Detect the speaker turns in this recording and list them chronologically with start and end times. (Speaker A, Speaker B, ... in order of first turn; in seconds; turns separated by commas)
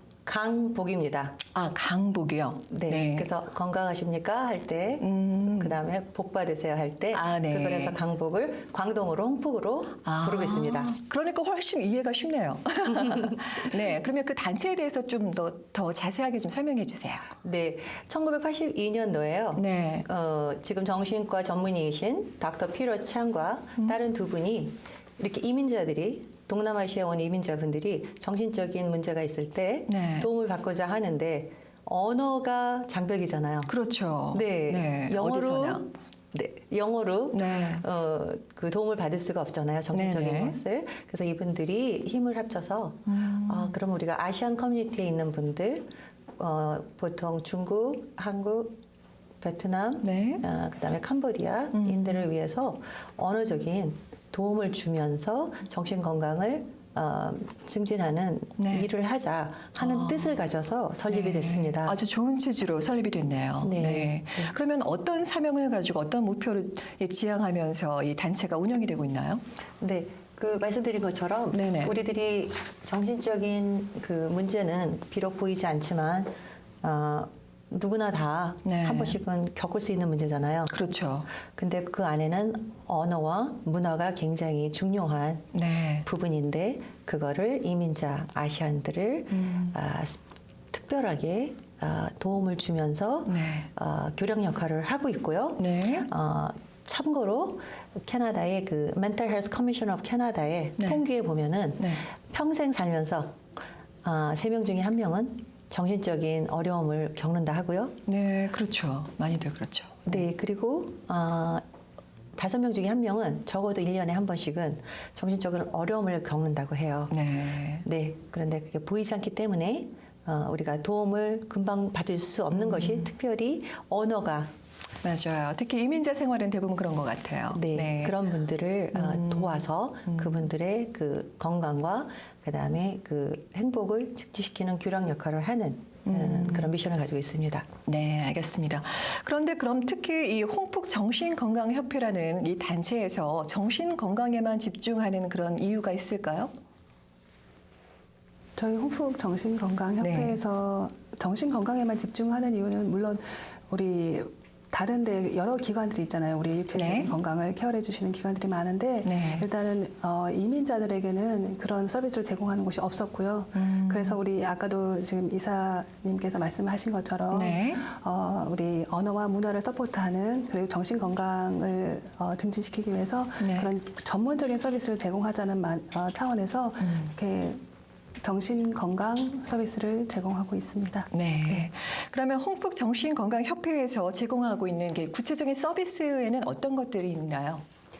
Speaker A: 0.2-1.4, Speaker B: 1.5-3.3, Speaker A: 2.7-10.9, Speaker B: 5.0-5.8, Speaker B: 7.1-8.0, Speaker B: 10.0-17.3, Speaker A: 13.1-13.4, Speaker A: 17.4-33.7, Speaker B: 19.6-20.1, Speaker B: 29.9-30.3, Speaker B: 33.7-35.9, Speaker A: 34.3-48.8, Speaker B: 37.3-37.8, Speaker B: 39.9-40.6, Speaker B: 43.0-43.7, Speaker A: 49.4-62.0, Speaker B: 50.0-50.4, Speaker B: 51.7-52.2, Speaker B: 58.6-58.9, Speaker B: 59.8-60.3, Speaker B: 61.1-69.4, Speaker A: 63.6-64.5, Speaker A: 69.8-80.8, Speaker B: 71.5-71.9, Speaker B: 78.6-79.2, Speaker B: 80.7-81.3, Speaker A: 81.5-85.5, Speaker B: 85.5-86.1, Speaker A: 86.0-103.4, Speaker B: 89.3-89.8, Speaker B: 93.2-93.7, Speaker B: 95.6-96.1, Speaker B: 101.8-102.0, Speaker A: 104.0-108.0, Speaker B: 108.1-110.2, Speaker A: 110.1-111.6, Speaker A: 112.3-117.2, Speaker B: 117.1-117.8, Speaker A: 117.8-124.5, Speaker B: 122.5-123.1, Speaker B: 125.0-128.2, Speaker A: 127.5-137.7, Speaker B: 128.9-130.4, Speaker B: 136.0-136.7, Speaker B: 137.8-146.5, Speaker C: 148.6-177.6, Speaker B: 150.0-150.4, Speaker B: 156.7-157.1, Speaker B: 159.0-159.5, Speaker B: 163.5-164.2, Speaker B: 167.3-167.8, Speaker B: 173.4-173.7, Speaker B: 176.8-177.1, Speaker C: 178.2-181.7, Speaker B: 181.1-187.6